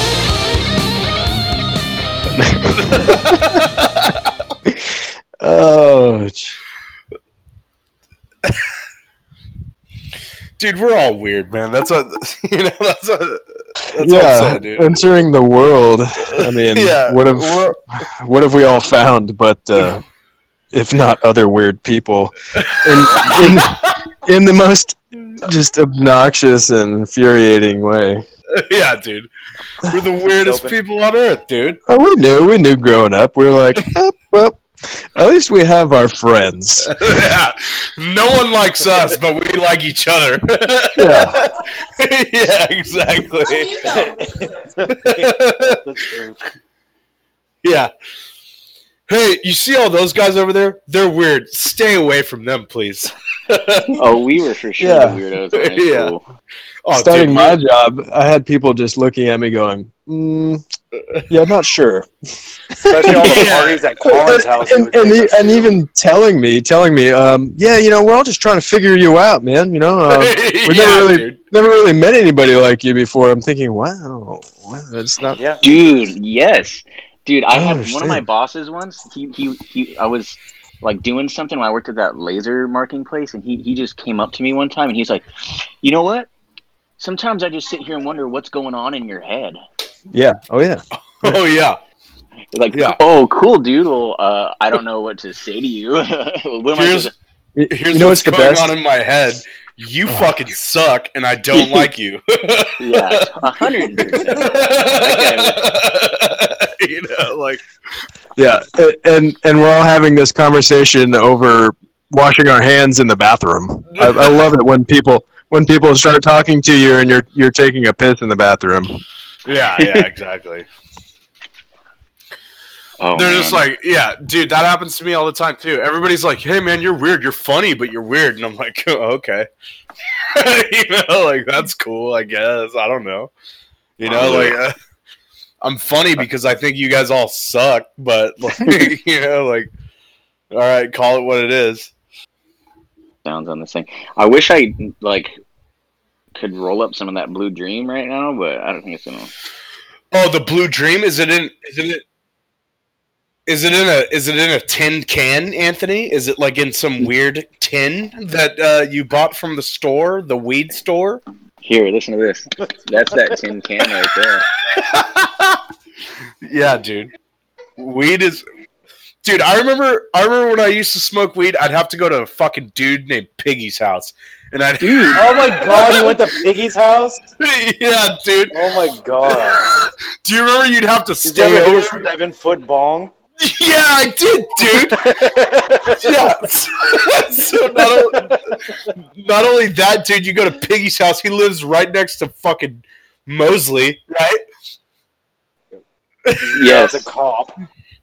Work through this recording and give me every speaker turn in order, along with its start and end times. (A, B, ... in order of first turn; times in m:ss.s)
0:02.4-0:03.4 A
0:02.7-0:04.3 B
0:04.6-0:06.6 A
0:10.6-0:13.4 B
0:13.9-0:20.0 A
0:13.9-0:15.0 B
0:16.3-0:17.8 B
0:20.7-0:28.2 A
0:22.6-0:23.9 B
0:28.5-0:29.3 B
0:29.8-0:31.8 B
0:30.4-0:30.8 C
0:31.9-0:36.9 A
0:36.8-0:44.1 B
0:40.9-0:41.4 A
0:43.8-0:46.4 C
0:44.8-0:45.8 B
0:47.6-0:47.9 B
0:49.1-0:54.0 B
0:54.0-0:56.2 D
0:54.8-0:55.2 A
0:55.5-0:56.1 B
0:56.8-0:57.6 B
0:56.9-1:00.6 A
1:01.3-1:02.1 A
1:02.7-1:03.5 A
1:02.9-1:05.7 C
1:03.0-1:03.8 B
1:04.0-1:15.4 A
1:10.1-1:11.4 B
1:15.4-1:15.6 C
1:15.6-1:26.3 D
1:17.5-1:18.2 A
1:27.0-1:29.6 D
1:30.1-1:31.4 A
1:31.1-1:31.8 B
1:32.5-1:37.1 D
1:32.7-1:33.0 B
1:36.8-1:37.1 B
1:37.5-1:38.7 A
1:37.7-1:43.2 B
1:41.5-1:41.9 D
1:42.8-1:45.6 D
1:44.1-1:47.6 B
1:48.4-1:59.0 A
1:54.0-1:54.4 B
1:59.4-2:00.7 B
1:59.8-2:00.0 D
2:03.0-2:03.6 D
2:03.1-2:09.5 B
2:10.3-2:13.3 B
2:14.0-2:14.7 B
2:14.0-2:14.6 D
2:15.6-2:19.7 B
2:20.5-2:21.9 B
2:23.2-2:25.4 D
2:26.4-2:29.3 D
2:30.1-2:32.0 B
2:33.5-2:41.2 B
2:41.6-2:44.4 D
2:44.7-2:45.6 B
2:46.4-2:47.1 B
2:47.8-2:48.4 B
2:49.2-2:56.3 B
2:54.8-2:55.2 D
2:55.2-2:57.2 C
2:57.4-2:58.6 B
2:58.5-2:59.7 C
2:59.3-3:02.1 B
3:01.2-3:03.1 C
3:03.4-3:05.2 B
3:04.6-3:06.1 C
3:06.0-3:08.6 B
3:07.8-3:08.3 C
3:09.2-3:14.4 B
3:16.2-3:16.6 B
3:16.4-3:17.5 C
3:16.5-3:17.0 D